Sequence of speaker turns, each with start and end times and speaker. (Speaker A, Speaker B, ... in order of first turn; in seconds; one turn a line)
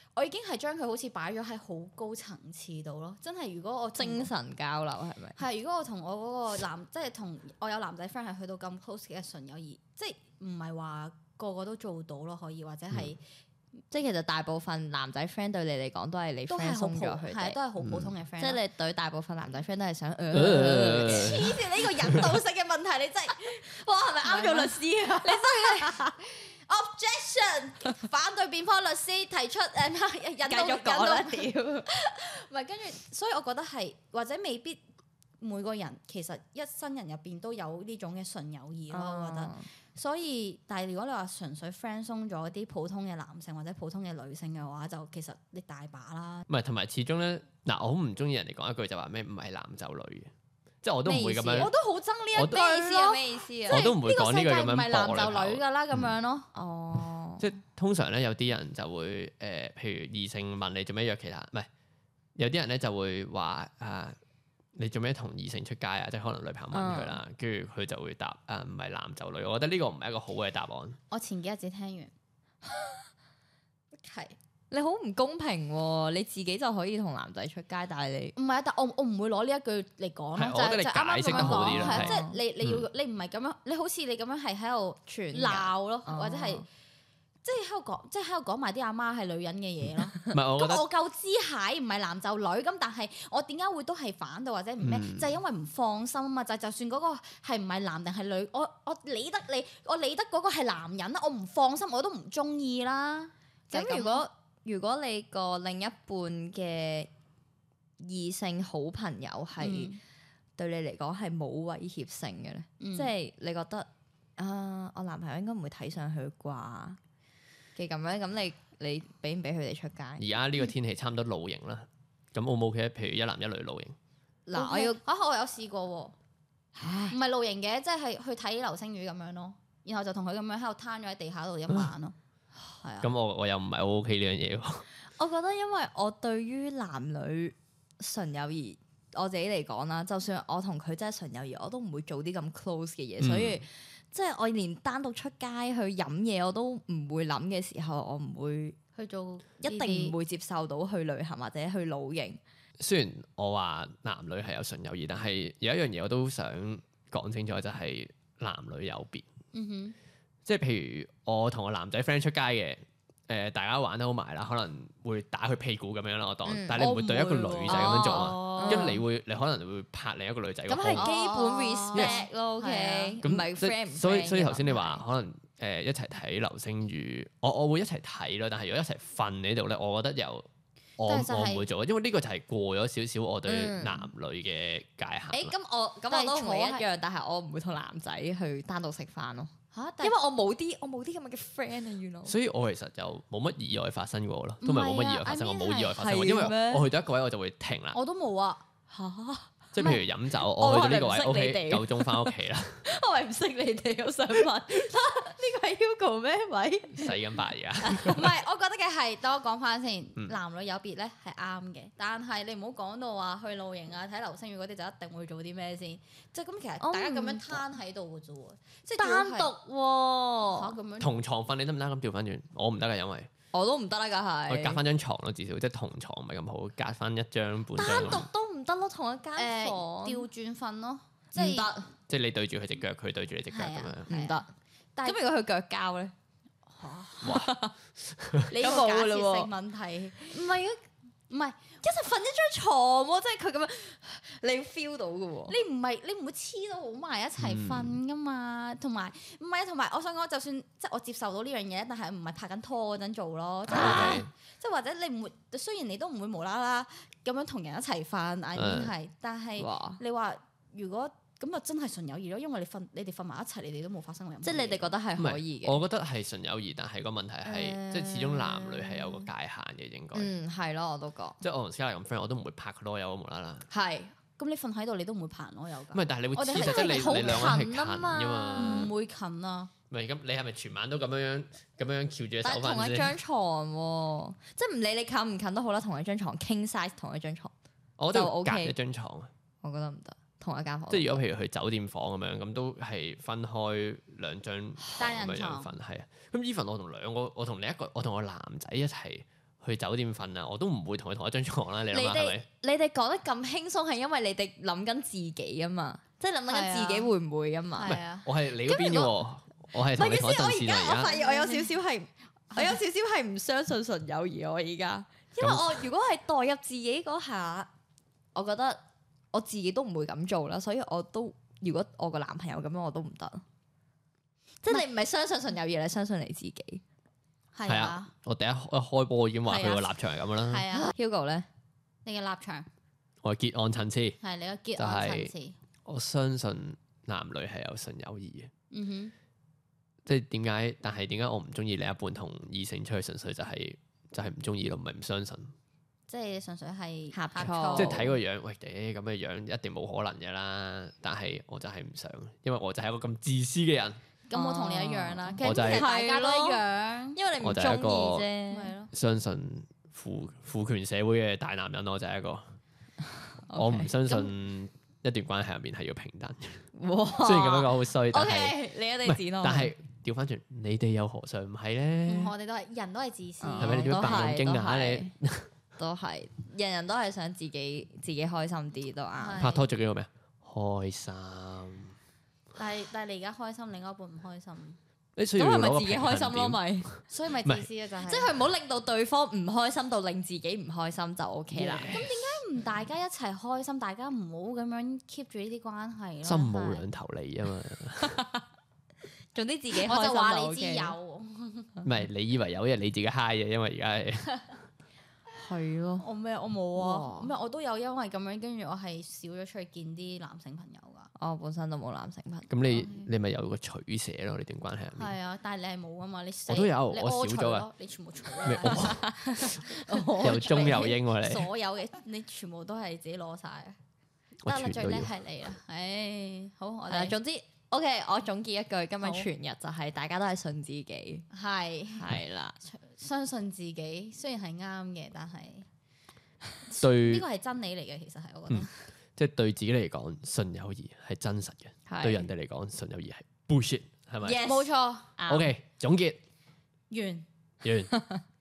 Speaker A: 0.2-4.3
Speaker B: 4.0-5.4
Speaker A: 5.4-13.2
Speaker B: 13.9-17.6
Speaker A: 16.5-18.6
Speaker C: 17.8-18.1
Speaker B: 18.4-22.2
Speaker C: 20.3-22.2
Speaker A: 20.6-23.7
Speaker B: 23.6-26.1
Speaker A: 24.2-34.8
Speaker B: 30.4-31.9
Speaker A: 35.4-46.5
Speaker B: 38.9-39.7
Speaker C: 46.5-50.3
Speaker C: 50.8-51.7
Speaker B: 51.0-51.7
Speaker A: 51.6-56.5
Speaker B: 52.5-53.9
Speaker C: 53.7-56.1
Speaker B: 56.5-57.4
Speaker C: 57.4-61.7
Speaker C: 62.4-64.2
Speaker C: 64.8-71.0
Speaker B: 66.7-67.2
Speaker A: 71.1-72.1
Speaker B: 72.7-73.0
Speaker A: 74.0-74.4
Speaker B: 74.7-78.3
Speaker A: 78.4-86.7
Speaker C: 80.4-82.9
Speaker B: 81.3-82.4
Speaker B: 85.1-86.6
Speaker A: 87.4-104.3
Speaker C: 90.2-90.8
Speaker C: 94.8-95.3
Speaker B: 103.7-107.1
Speaker B: 108.0-109.9
Speaker A: 109.6-110.0
Speaker B: 110.6-117.0
Speaker A: 112.8-113.1
Speaker B: 117.8-120.2
Speaker C: 120.2-124.0
Speaker B: 124.5-125.0
Speaker A: 124.5-126.2
Speaker B: 126.8-127.2
Speaker A: 127.1-132.2
Speaker A: 132.8-133.1
Speaker C: 133.0-134.9
Speaker B: 135.2-148.8
Speaker C: 143.2-143.6
Speaker A: 149.0-150.2
Speaker B: 149.6-152.4
Speaker C: 152.8-159.3
Speaker A: 159.5-160.0
Speaker C: 160.5-171.1
Speaker B: 166.5-169.0
Speaker A: 166.8-169.0
Speaker B: 170.7-175.0
Speaker A: 171.0-173.2
Speaker C: 173.2-180.5
Speaker C: 181.0-185.5
Speaker A: 181.1-181.7
Speaker B: 183.5-184.1
Speaker B: 185.3-192.3
Speaker A: 186.1-186.8
Speaker A: 189.7-190.2
Speaker C: 192.2-198.0
Speaker A: 194.6-196.0
Speaker B: 195.9-196.9
Speaker A: 197.9-198.6
Speaker B: 198.9-207.2
Speaker C: 199.7-202.8
Speaker C: 207.0-208.3
Speaker B: 207.8-208.2
Speaker A: 207.9-219.5
Speaker B: 216.8-217.6
Speaker B: 219.0-220.8
Speaker A: 220.4-221.2
Speaker C: 221.0-223.3
Speaker B: 223.5-224.8
Speaker C: 224.5-228.3
Speaker B: 227.8-230.3
Speaker A: 229.4-231.7
Speaker B: 231.3-231.9
Speaker C: 232.1-234.1
Speaker A: 233.5-234.4
Speaker B: 234.1-234.5
Speaker B: 235.0-236.1
Speaker A: 236.7-237.5
Speaker C: 237.2-238.5
Speaker B: 237.3-237.8
Speaker A: 238.5-240.4
Speaker B: 238.5-239.5
Speaker B: 240.3-240.8
Speaker A: 241.3-241.7
Speaker B: 241.8-245.6
Speaker A: 245.5-264.9
Speaker C: 247.4-248.0
Speaker B: 253.7-254.2
Speaker C: 253.7-254.3
Speaker C: 258.6-258.9
Speaker B: 259.6-260.0
Speaker B: 264.4-265.8
Speaker C: 265.2-270.3
Speaker B: 267.4-269.3
Speaker B: 270.1-271.4
Speaker C: 271.4-273.7
Speaker B: 273.7-274.1
Speaker A: 274.4-277.6
Speaker C: 275.9-278.9
Speaker B: 276.6-278.9
Speaker A: 278.6-279.7
Speaker C: 279.9-283.2
Speaker B: 282.4-287.5
Speaker C: 288.0-289.3
Speaker B: 288.1-288.8
Speaker B: 289.6-291.2
Speaker C: 290.9-302.4
Speaker A: 295.0-295.7
Speaker B: 301.9-308.0
Speaker A: 306.5-307.1
Speaker A: 307.8-309.1
Speaker C: 307.9-311.1
Speaker B: 309.9-317.7
Speaker A: 311.0-311.7
Speaker C: 315.4-315.9
Speaker B: 318.4-318.8
Speaker B: 319.3-323.4
Speaker B: 324.6-326.8
Speaker A: 327.5-328.1
Speaker C: 327.6-330.6
Speaker A: 329.5-330.9
Speaker B: 330.7-331.5
Speaker A: 332.1-332.7
Speaker C: 333.2-334.2
Speaker A: 334.2-335.6
Speaker C: 334.8-335.3
Speaker C: 335.9-338.5
Speaker A: 338.7-339.1
Speaker C: 340.1-345.5
Speaker A: 346.1-348.1
Speaker B: 347.1-348.1
Speaker C: 347.8-354.0
Speaker A: 354.3-357.2
Speaker B: 354.3-356.6
Speaker C: 355.4-355.9
Speaker B: 357.1-358.7
Speaker C: 357.4-358.3
Speaker A: 358.5-358.9
Speaker C: 358.9-362.4
Speaker A: 363.5-364.3
Speaker C: 363.5-372.3
Speaker B: 366.7-369.7
Speaker A: 372.1-374.2
Speaker B: 373.4-375.1
Speaker C: 373.6-375.5
Speaker B: 375.8-379.6
Speaker A: 379.2-379.7
Speaker C: 379.4-381.9
Speaker A: 382.6-384.8
Speaker C: 385.2-387.7
Speaker B: 385.4-386.9
Speaker A: 387.1-388.3
Speaker B: 388.0-392.1
Speaker C: 391.5-392.1
Speaker A: 391.9-396.9
Speaker C: 396.2-398.2
Speaker B: 398.0-398.4
Speaker B: 399.3-401.0
Speaker A: 399.8-401.7
Speaker C: 401.8-404.4
Speaker B: 405.3-406.1
Speaker A: 406.0-411.1
Speaker B: 406.8-407.3
Speaker B: 411.2-413.0
Speaker C: 412.5-415.1
Speaker A: 415.0-423.8
Speaker C: 416.5-417.7
Speaker C: 418.4-419.7
Speaker C: 420.2-421.5
Speaker C: 424.4-425.1
Speaker A: 424.5-427.2
Speaker B: 426.9-431.3
Speaker A: 429.0-429.3
Speaker A: 431.3-435.7
Speaker B: 431.9-432.6
Speaker A: 436.7-438.8
Speaker C: 436.8-437.2
Speaker C: 438.5-444.4
Speaker B: 441.9-442.3
Speaker B: 444.2-445.5
Speaker A: 444.4-445.1
Speaker C: 445.3-446.2
Speaker A: 446.9-447.3
Speaker C: 447.6-447.9
Speaker B: 447.9-448.2